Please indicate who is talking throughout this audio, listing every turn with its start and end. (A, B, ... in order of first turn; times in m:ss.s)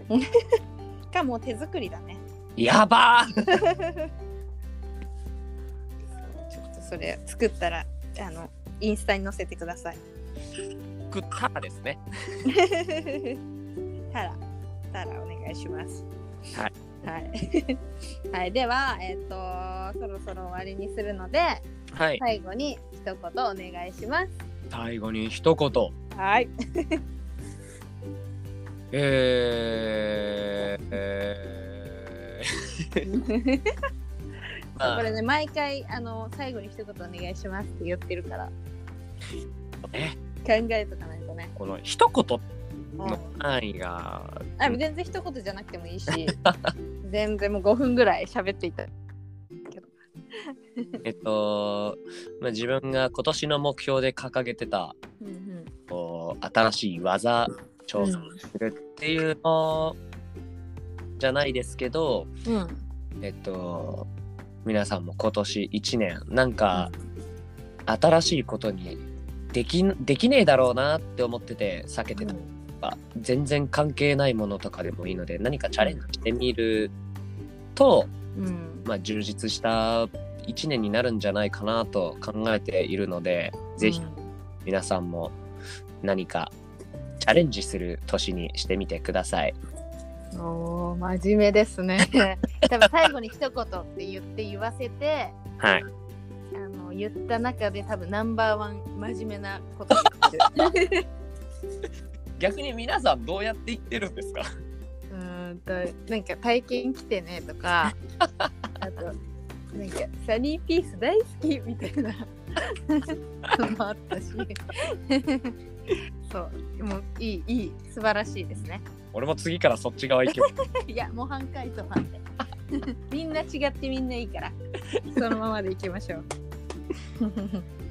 0:01.1-0:02.2 A
0:02.6-0:03.3 B
0:03.6-0:04.1 A
0:06.5-0:10.0 A
0:11.1-0:12.4 B
0:12.4-0:13.4 A
0:14.1-0:14.4 A
0:14.9-0:16.0 A
0:17.0-0:17.8 A
0:18.3-0:21.6 A
0:21.9-0:22.2 B
0:22.2-0:24.3 A
0:24.7-0:25.9 B
0:26.1-0:27.0 A
0:28.9-0:33.1 B
0:33.0-0:33.7 A
0:34.8-0:35.1 B
0:34.8-0:38.5 A
0:39.9-0:40.2 B
0:40.4-0:41.5 A
0:41.6-0:42.4 B
0:43.0-0:43.4 A
0:43.0-0:44.8 B
0:44.6-0:46.4 A
0:46.1-0:46.7 B
0:47.0-0:48.9 A
0:49.7-0:51.0 A
0:51.0-0:54.9 B
0:55.2-0:55.7 A
0:55.9-1:00.0 B
0:58.0-0:58.4 A
1:01.2-1:02.3 B
1:02.4-1:02.8 A
1:03.2-1:04.1 B
1:04.6-1:06.9 B
1:06.7-1:07.0 A
1:07.9-1:09.0 B
1:09.5-1:16.9 B
1:12.2-1:12.5 A
1:17.8-1:18.1 B
1:18.4-1:18.9 A
1:18.9-1:24.0 B
1:23.8-1:24.3 A
1:24.6-1:25.4 B
1:26.0-1:26.5 B
1:27.2-1:29.5 B
1:30.3-1:35.4 A
1:35.6-1:35.8 B
1:36.5-1:41.0 A
1:42.4-1:44.5 B
1:45.1-1:48.0 A
1:47.8-1:48.5 B
1:48.8-1:49.1 A
1:49.7-1:55.5 A
1:56.2-1:58.8 A
1:59.1-2:00.5 B
2:00.3-2:02.2 A
2:02.7-2:06.2 A
2:07.2-2:07.6 A